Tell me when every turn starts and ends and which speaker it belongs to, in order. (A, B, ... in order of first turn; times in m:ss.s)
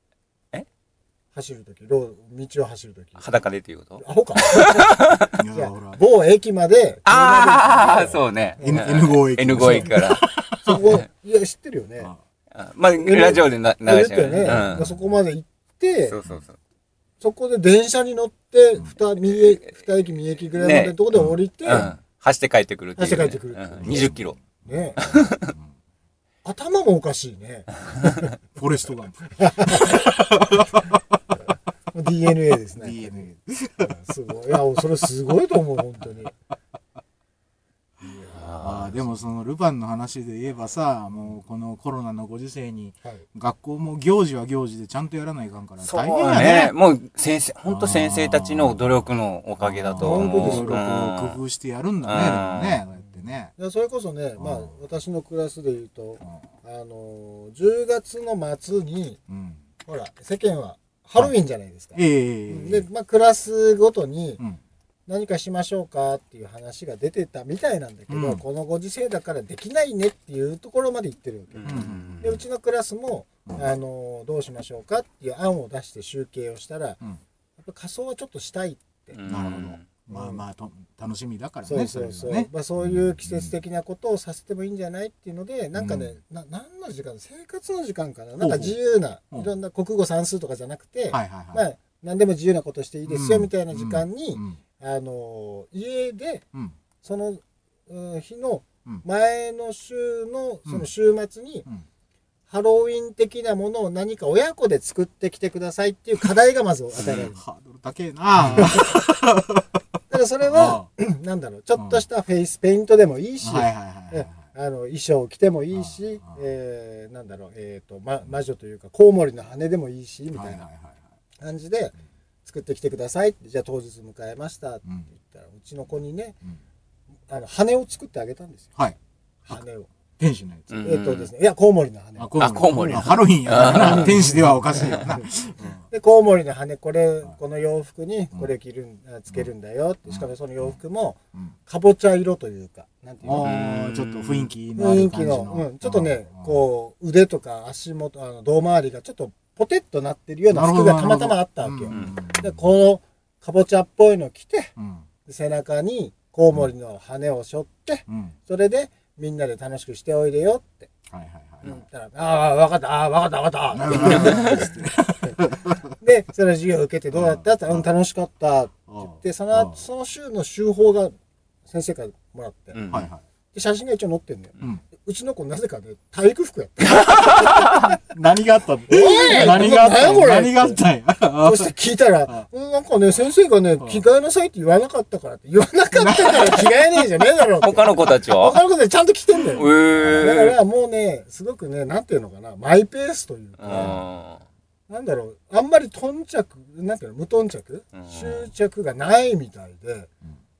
0:01.3-0:03.2 A
0:03.2-0:05.3 B
0:04.0-0:08.9 A
0:05.3-0:06.0 C
0:07.0-0:10.2 B
0:08.6-0:11.0 C
0:10.6-0:12.1 A
0:12.5-0:14.8 B
0:13.0-0:16.2 A
0:14.4-0:15.0 C
0:16.1-0:16.5 B
0:17.2-0:21.9 A
0:20.5-0:21.0 B
0:21.1-0:22.0 C
0:21.6-0:24.4 B
0:23.0-0:24.1 A
0:23.8-0:25.7 C
0:24.6-0:25.0 A
0:25.0-0:25.5 B
0:26.4-0:28.3 A
0:28.6-0:31.0 C
0:29.4-0:30.7 A
0:31.9-0:33.3 A
0:32.8-0:33.9 C
0:33.8-0:36.3 A
0:38.0-0:38.4 A
0:38.3-0:38.9 B
0:38.6-0:46.7 C
0:45.8-0:51.4 B
0:47.7-0:48.8 C
0:49.6-0:53.5 C
0:50.0-0:50.8 A
0:52.0-0:52.8 B
0:53.6-0:59.2 A
0:54.4-0:54.7 C
0:59.3-0:59.6 C
0:59.8-1:04.4 A
1:01.9-1:02.8 C
1:05.1-1:17.0 A
1:08.1-1:08.4 C
1:11.5-1:12.3 B
1:11.6-1:12.4 C
1:17.6-1:19.2 A
1:19.1-1:19.8 B
1:19.3-1:23.5 C
1:20.1-1:20.4 A
1:21.6-1:36.4 A
1:25.7-1:26.1 C
1:28.4-1:28.8 C
1:31.1-1:31.6 C
1:33.1-1:34.6 C
1:37.0-1:41.7 A
1:42.5-1:47.4 A
1:47.0-1:49.7 C
1:48.5-1:48.9 A
1:50.1-2:00.6 A
1:50.4-1:50.9 C
1:51.8-1:52.0 C
1:53.4-1:54.4 C
1:55.7-1:56.4 C
2:00.3-2:01.0 C
2:01.4-2:01.9 A
2:02.4-2:06.4 A
2:07.3-2:08.7 A
2:09.4-2:09.9 A
2:10.2-2:10.7 C
2:10.7-2:11.3 B
2:10.8-2:12.3 A
2:12.2-2:15.8 C
2:12.4-2:14.2 B
2:13.6-2:15.3 A
2:15.9-2:23.7 A
2:23.2-2:26.6 C
2:23.4-2:24.5 B
2:24.8-2:34.7 A
2:30.5-2:32.6 C
2:34.8-2:35.0 C
2:35.2-2:40.9 A
2:38.1-2:38.4 C
2:41.1-2:41.8 C
2:41.6-2:45.4 A
2:43.7-2:45.9 C
2:44.0-2:44.7 B
2:46.0-2:51.1 A
2:47.1-2:47.9 C
2:48.9-2:49.8 C
2:51.7-2:52.8 A
2:52.7-2:53.1 B
2:52.9-2:53.2 C
2:53.5-2:57.8 A
2:57.1-2:57.7 B
2:58.1-3:01.7 C
2:58.9-3:00.8 A
3:01.4-3:14.0 A
3:05.9-3:06.7 C
3:07.6-3:08.6 B
3:09.5-3:10.6 B
3:13.6-3:14.4 B
3:14.9-3:20.1 A
3:17.9-3:18.4 B